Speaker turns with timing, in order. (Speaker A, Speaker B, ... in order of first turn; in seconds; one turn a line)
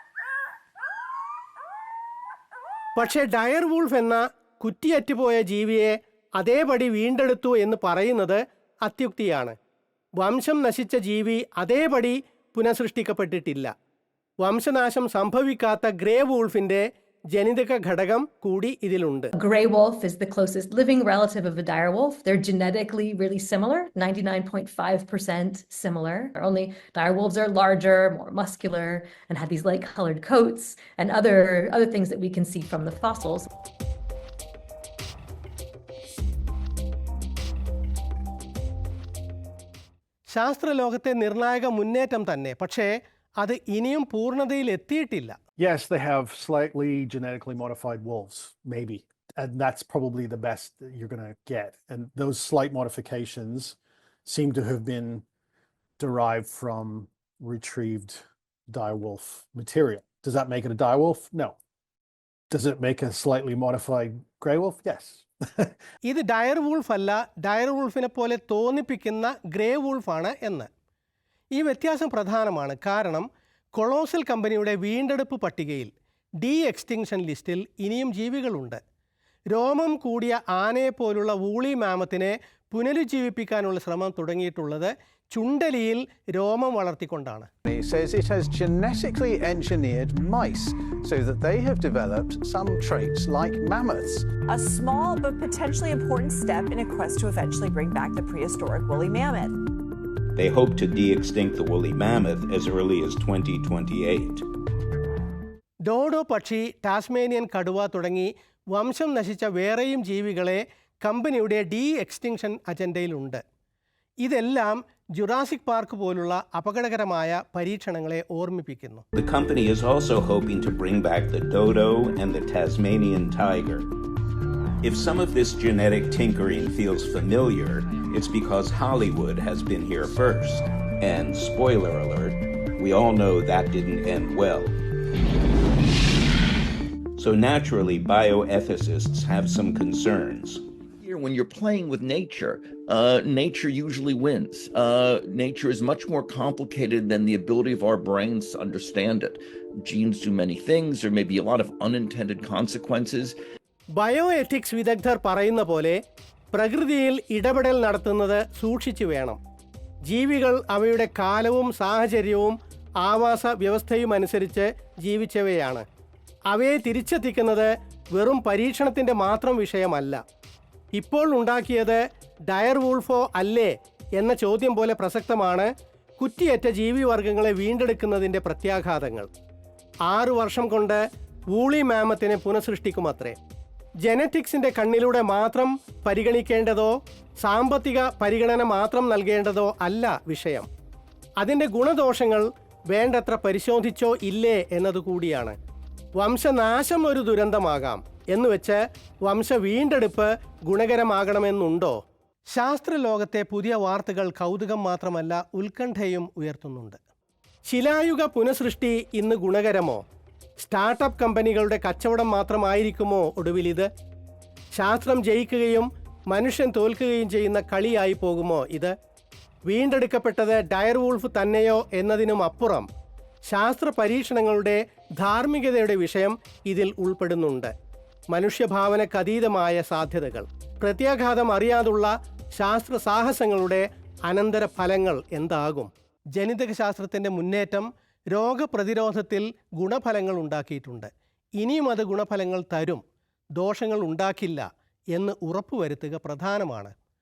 Speaker A: 3.0-9.5
Speaker A: 10.2-13.7
Speaker A: 14.4-16.8
Speaker A: 17.3-19.3
Speaker B: 19.3-33.5
Speaker A: 40.3-45.4
Speaker C: 45.6-55.2
Speaker C: 56.0-61.6
Speaker C: 62.5-65.8
Speaker A: 66.1-70.7
Speaker A: 71.5-75.9
Speaker A: 76.4-78.8
Speaker A: 79.5-87.5
Speaker D: 87.7-94.2
Speaker E: 94.5-99.6
Speaker F: 100.4-104.5
Speaker A: 105.9-113.4
Speaker A: 114.2-119.0
Speaker F: 119.1-123.9
Speaker F: 124.8-134.8
Speaker F: 137.2-140.6
Speaker G: 141.0-153.4
Speaker A: 154.0-156.0
Speaker A: 156.5-159.4
Speaker A: 160.1-165.8
Speaker A: 166.5-170.2
Speaker A: 171.0-175.7
Speaker A: 176.2-179.3
Speaker A: 180.1-181.0
Speaker A: 181.5-183.4
Speaker A: 184.0-190.7
Speaker A: 191.4-195.6
Speaker A: 196.2-201.9
Speaker A: 202.5-207.0
Speaker A: 207.7-210.0
Speaker A: 210.6-213.9
Speaker A: 214.8-218.9
Speaker A: 219.7-222.9
Speaker A: 223.5-227.7
Speaker A: 228.3-243.0
Speaker A: 243.6-246.9